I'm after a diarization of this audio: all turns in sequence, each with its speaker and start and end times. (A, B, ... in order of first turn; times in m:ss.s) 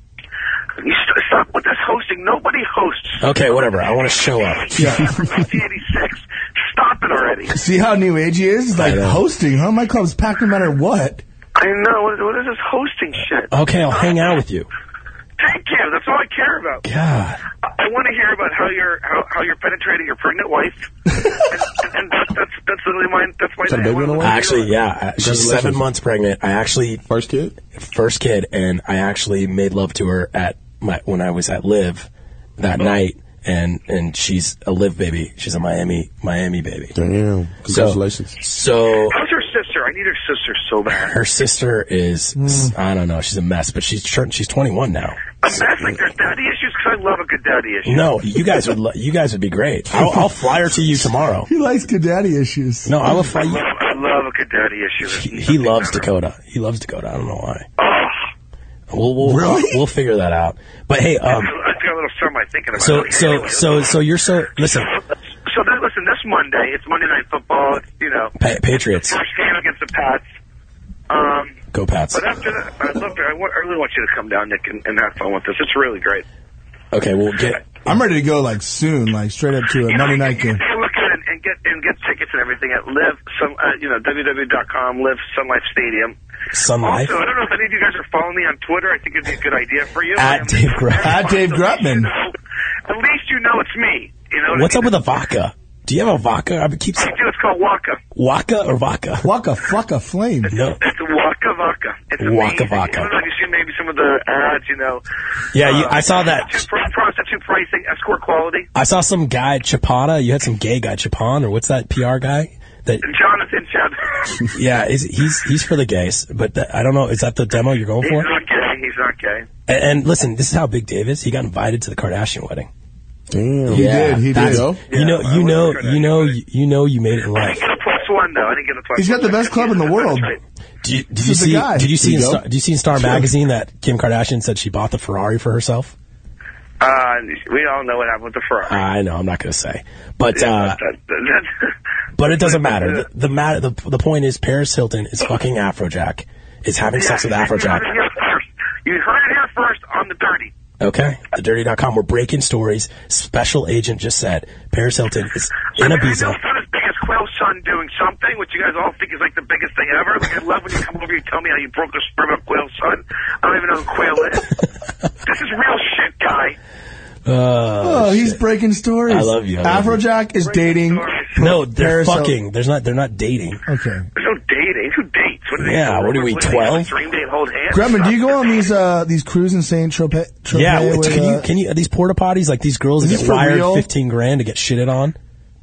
0:00.8-0:03.2 A
0:03.2-0:04.8 B
0:04.8-0:05.1 C
0:04.8-0:07.5 A
0:07.5-0:11.2 C
0:08.8-0:09.2 B
0:11.6-0:14.0 A
0:13.5-0:14.7 B
0:15.4-0:16.8 A
0:16.8-0:17.4 B
0:17.6-0:20.9 A
0:21.5-0:24.7 A
0:23.6-0:24.4 D
0:24.2-0:27.0 B
0:25.2-0:25.8 D
0:27.1-0:27.6 D
0:27.7-0:32.1 B
0:32.6-0:36.9 B
0:36.9-0:38.4 D
0:37.7-0:39.2 B
0:39.1-0:41.1 A
0:41.0-0:45.3 B
0:42.4-0:42.7 C
0:45.4-0:48.2 A
0:47.8-0:51.5 B
0:51.4-0:52.9 C
0:52.8-0:53.6 B
0:53.2-0:56.1 A
0:55.0-0:57.7 B
0:57.8-0:58.3 A
0:58.9-1:01.5 B
0:59.2-0:59.6 C
1:01.2-1:04.0 A
1:02.8-1:04.9 B
1:04.6-1:08.3 A
1:08.4-1:09.2 B
1:09.0-1:10.2 A
1:11.1-1:11.6 A
1:11.7-1:12.3 B
1:12.1-1:16.2 A
1:16.9-1:17.6 B
1:17.8-1:20.6 C
1:19.9-1:26.2 A
1:26.5-1:27.1 B
1:26.8-1:32.3 A
1:30.1-1:31.3 B
1:31.0-1:32.1 C
1:32.8-1:35.0 A
1:34.5-1:37.1 B
1:37.0-1:38.0 A
1:38.1-1:39.3 B
1:39.2-1:40.5 C
1:40.5-1:40.8 B
1:40.8-1:45.0 A
1:42.2-1:43.1 B
1:45.5-1:46.6 B
1:45.5-1:48.7 A
1:48.7-1:53.0 B
1:53.0-1:54.4 A
1:54.5-1:58.3 B
1:58.0-1:59.4 A
1:59.7-2:02.7 B
2:03.3-2:04.8 D
2:03.7-2:07.6 B
2:03.7-2:04.8 C
2:04.9-2:06.3 A
2:07.3-2:10.4 A
2:09.0-2:10.3 C
2:10.8-2:15.9 B
2:11.2-2:11.9 C
2:12.0-2:12.4 D
2:16.8-2:18.8 A
2:18.6-2:20.8 B
2:20.3-2:21.7 A
2:22.2-2:27.9 B
2:22.2-2:23.0 A
2:26.9-2:30.5 A
2:30.8-2:36.4 B
2:35.8-2:44.5 A
2:45.2-2:46.6 A
2:47.2-2:48.4 B
2:47.8-2:52.3 C
2:49.1-2:50.0 B
2:50.4-2:51.4 A
2:51.4-2:53.6 B
2:53.7-2:54.1 C
2:54.2-2:58.5 A
2:55.6-2:56.9 B
2:57.7-3:01.5 C
3:00.5-3:05.1 B
3:03.0-3:03.8 C